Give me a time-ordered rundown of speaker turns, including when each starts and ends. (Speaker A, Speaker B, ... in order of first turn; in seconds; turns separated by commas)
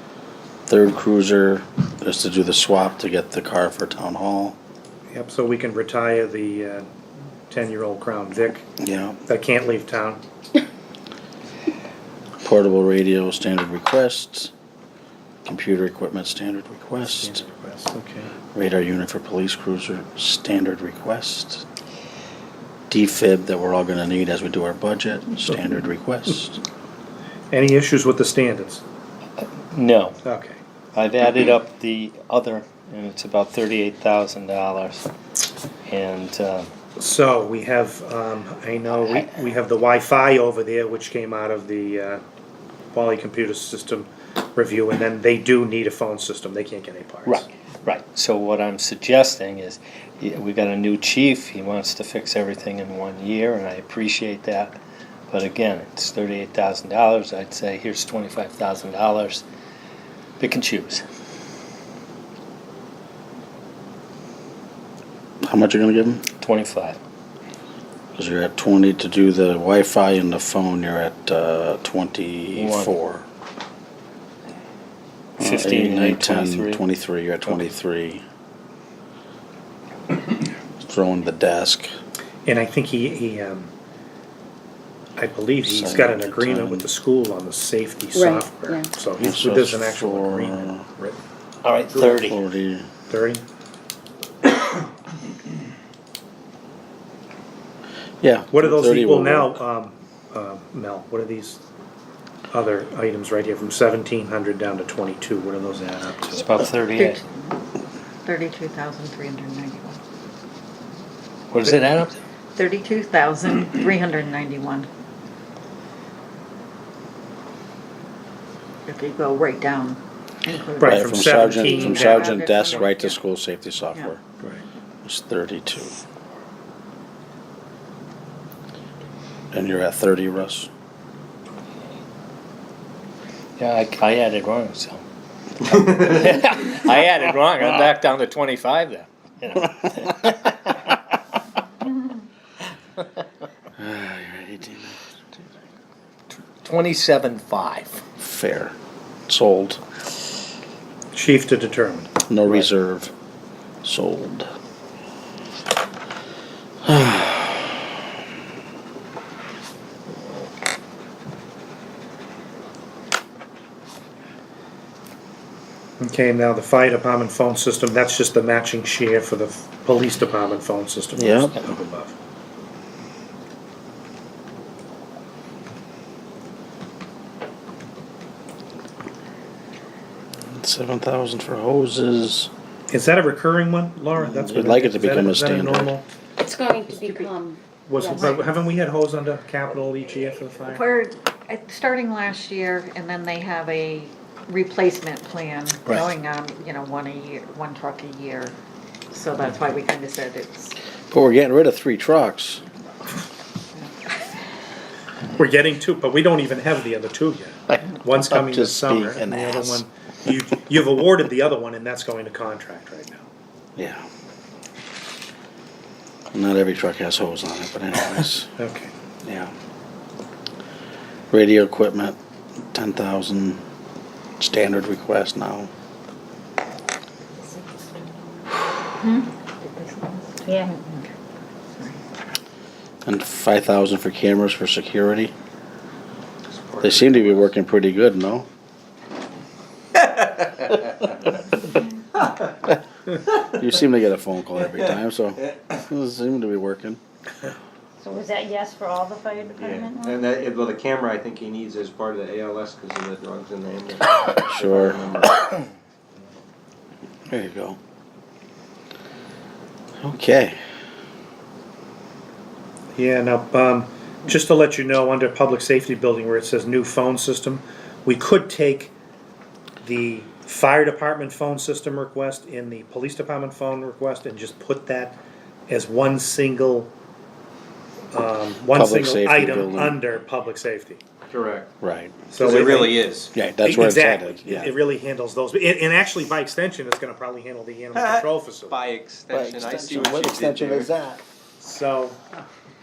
Speaker A: 0.7-4.6, Speaker B: 5.1-6.8, Speaker B: 7.5-8.7, Speaker A: 8.8-9.2, Speaker B: 9.2-10.2, Speaker A: 12.4-14.5, Speaker A: 15.4-17.4, Speaker B: 17.1-18.3, Speaker A: 18.5-21.6, Speaker A: 22.9-26.6, Speaker B: 27.5-28.8, Speaker C: 29.4-30.2, Speaker B: 30.2-30.6, Speaker C: 30.9-35.1, Speaker C: 35.9-36.7, Speaker B: 37.0-42.2, Speaker B: 42.9-47.4, Speaker C: 47.2-54.8, Speaker C: 55.3-59.4, Speaker C: 60.4-61.0, Speaker A: 65.4-66.2, Speaker C: 66.4-67.0, Speaker A: 68.1-73.2, Speaker C: 72.5-72.9, Speaker C: 75.4-76.8, Speaker A: 75.4-78.2, Speaker A: 80.8-81.9, Speaker B: 82.4-83.7, Speaker B: 85.2-91.2, Speaker A: 85.6-86.8, Speaker D: 88.1-88.9, Speaker A: 89.2-90.8, Speaker C: 91.6-92.4, Speaker A: 92.1-92.9, Speaker B: 93.1-93.4, Speaker A: 98.2-99.6, Speaker B: 98.5-101.6, Speaker B: 102.5-106.5, Speaker C: 106.4-107.2, Speaker E: 106.9-107.6, Speaker E: 108.2-110.0, Speaker C: 111.5-112.2, Speaker E: 112.5-114.9, Speaker E: 118.9-123.2, Speaker B: 120.8-122.3, Speaker A: 120.8-124.2, Speaker A: 125.0-126.0, Speaker A: 129.5-130.7, Speaker C: 133.6-135.0, Speaker C: 135.6-141.0, Speaker A: 143.8-144.9, Speaker C: 146.6-148.0, Speaker A: 148.2-148.7, Speaker A: 149.3-149.8, Speaker B: 151.1-152.1, Speaker A: 152.3-153.1, Speaker A: 153.8-154.5, Speaker A: 156.8-157.7, Speaker B: 166.0-172.1, Speaker A: 171.1-171.6, Speaker A: 180.5-182.5, Speaker B: 182.9-186.0, Speaker A: 184.2-185.9, Speaker D: 186.4-188.4, Speaker E: 187.0-187.3, Speaker B: 187.9-190.8, Speaker E: 190.7-198.6, Speaker E: 199.1-200.8, Speaker A: 201.1-202.6, Speaker B: 205.3-213.2, Speaker A: 208.1-209.8, Speaker A: 213.8-214.1, Speaker A: 216.3-218.5, Speaker B: 218.6-218.9, Speaker A: 219.2-219.5, Speaker A: 221.3-222.2, Speaker A: 222.7-223.6, Speaker A: 224.4-225.7, Speaker E: 229.0-231.1, Speaker D: 230.5-230.7, Speaker E: 231.8-232.0, Speaker A: 233.0-235.3, Speaker F: 236.5-237.5, Speaker A: 236.8-238.5, Speaker A: 243.4-247.0, Speaker D: 248.0-250.2, Speaker F: 250.0-255.3, Speaker A: 254.5-255.3, Speaker A: 257.3-257.8, Speaker A: 260.0-260.6, Speaker B: 262.9-268.9, Speaker B: 269.8-276.9, Speaker B: 278.1-281.0, Speaker A: 278.6-280.0, Speaker F: 281.3-281.7, Speaker A: 281.8-282.3, Speaker B: 282.3-283.0, Speaker F: 282.4-283.3, Speaker A: 283.3-284.7, Speaker B: 283.6-288.8, Speaker F: 287.9-291.0, Speaker A: 289.3-291.0, Speaker B: 291.6-292.2